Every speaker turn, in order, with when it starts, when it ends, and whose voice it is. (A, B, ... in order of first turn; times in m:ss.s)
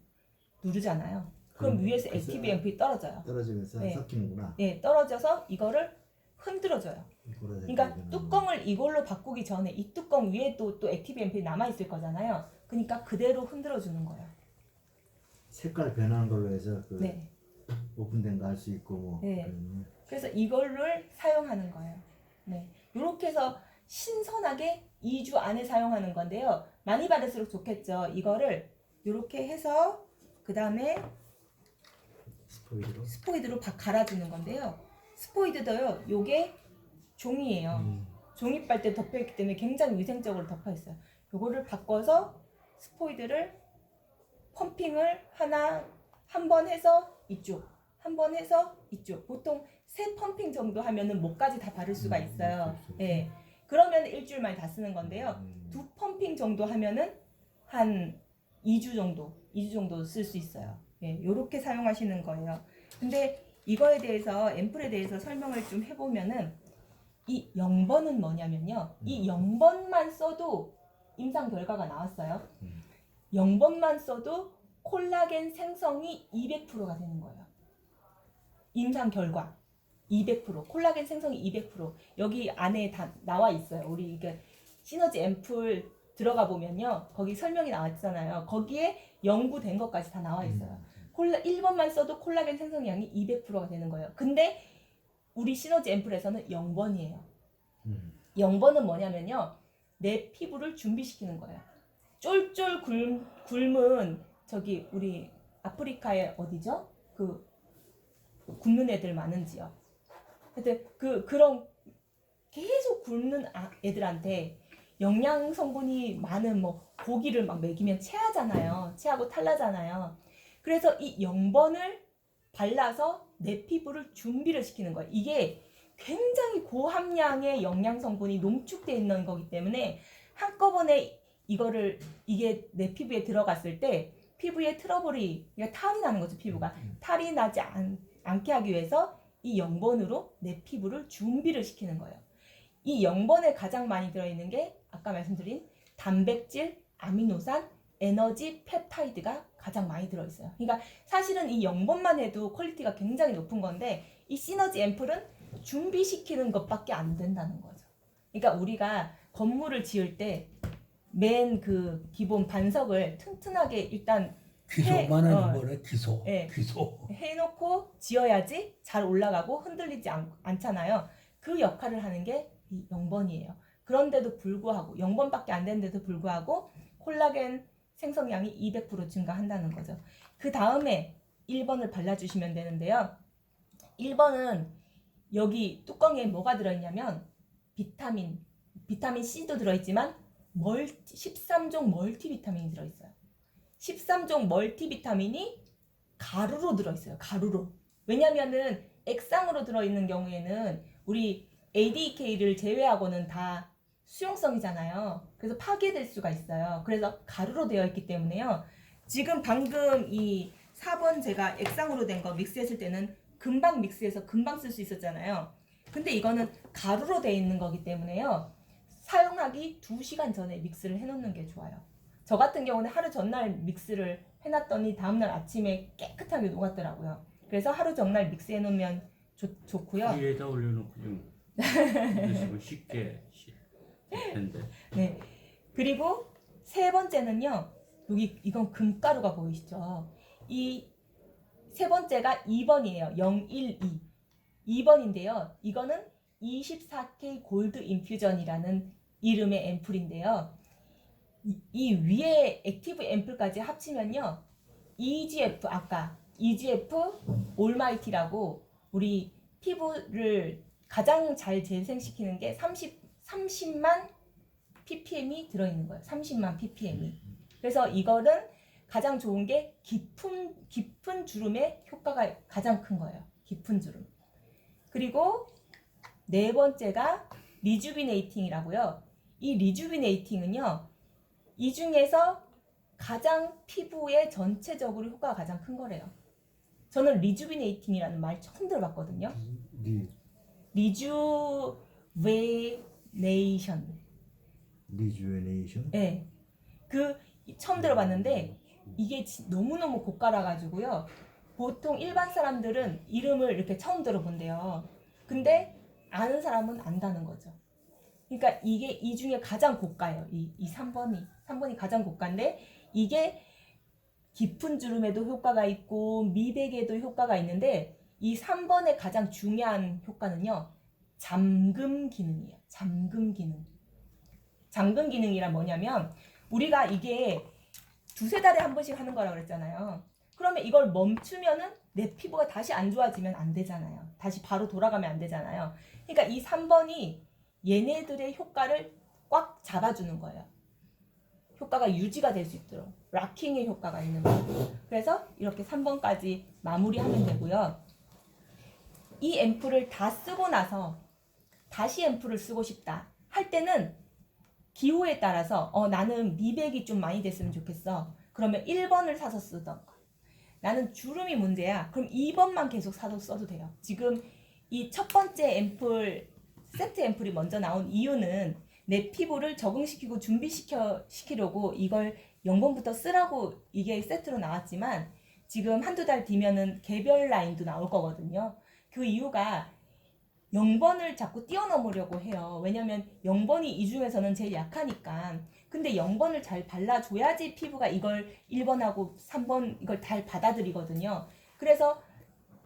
0:00.6-0:04.0 A
0:01.5-0:02.6 B
0:03.2-0:04.6 B
0:04.6-0:07.1 A
0:07.2-0:08.5 B
0:07.7-0:14.3 A
0:15.5-0:17.2 B
0:17.0-0:17.3 A
0:17.9-0:19.9 B
0:19.2-0:19.5 A
0:20.1-0:31.1 A
0:32.5-0:33.1 B
0:33.1-0:36.6 A
0:37.2-0:43.6 A
0:37.7-0:38.1 B
0:44.5-1:06.6 A
0:52.0-0:53.3 B
0:55.0-0:55.8 B
1:07.2-1:12.5 A
1:09.0-1:09.3 B
1:13.3-1:17.5 A
1:18.7-1:19.6 A
1:20.1-1:34.7 A
1:30.4-1:31.0 B
1:35.3-1:37.3 A
1:37.8-1:38.2 B
1:38.3-1:41.6 A
1:42.2-1:47.4 A
1:48.5-1:49.7 A
1:50.5-1:51.8 A
1:52.5-2:22.2 A
2:16.5-2:16.9 B
2:22.8-2:40.5 A
2:41.1-2:45.6 A
2:44.7-2:47.1 C
2:46.2-2:46.5 A
2:47.1-3:03.2 A
3:04.0-3:04.7 A
3:05.3-3:13.1 A
3:13.8-3:15.6 A
3:16.2-3:50.2 A
3:50.0-3:53.5 D
3:51.6-3:52.5 A
3:54.1-3:54.7 D
3:54.1-4:00.9 A
4:01.7-4:04.0 A
4:04.6-4:10.5 A
4:11.4-4:14.4 A
4:15.0-4:24.1 A
4:24.8-4:34.1 A
4:34.9-4:35.5 A
4:36.3-4:40.9 A
4:41.6-4:42.4 A
4:43.0-4:46.1 A
4:46.9-4:49.4 A
4:49.3-4:50.1 B
4:50.7-4:54.0 A
4:54.9-4:56.0 B
4:55.9-4:56.3 A
4:56.9-5:07.6 A
4:57.8-4:58.5 B
5:08.3-5:13.5 A
5:14.3-5:23.7 A
5:24.7-5:27.5 A
5:28.1-5:40.5 A
5:41.6-5:47.8 A
5:49.2-5:51.0 A
5:51.7-5:54.0 A
5:54.7-6:00.0 A
6:00.6-6:19.7 A
6:20.5-6:32.0 A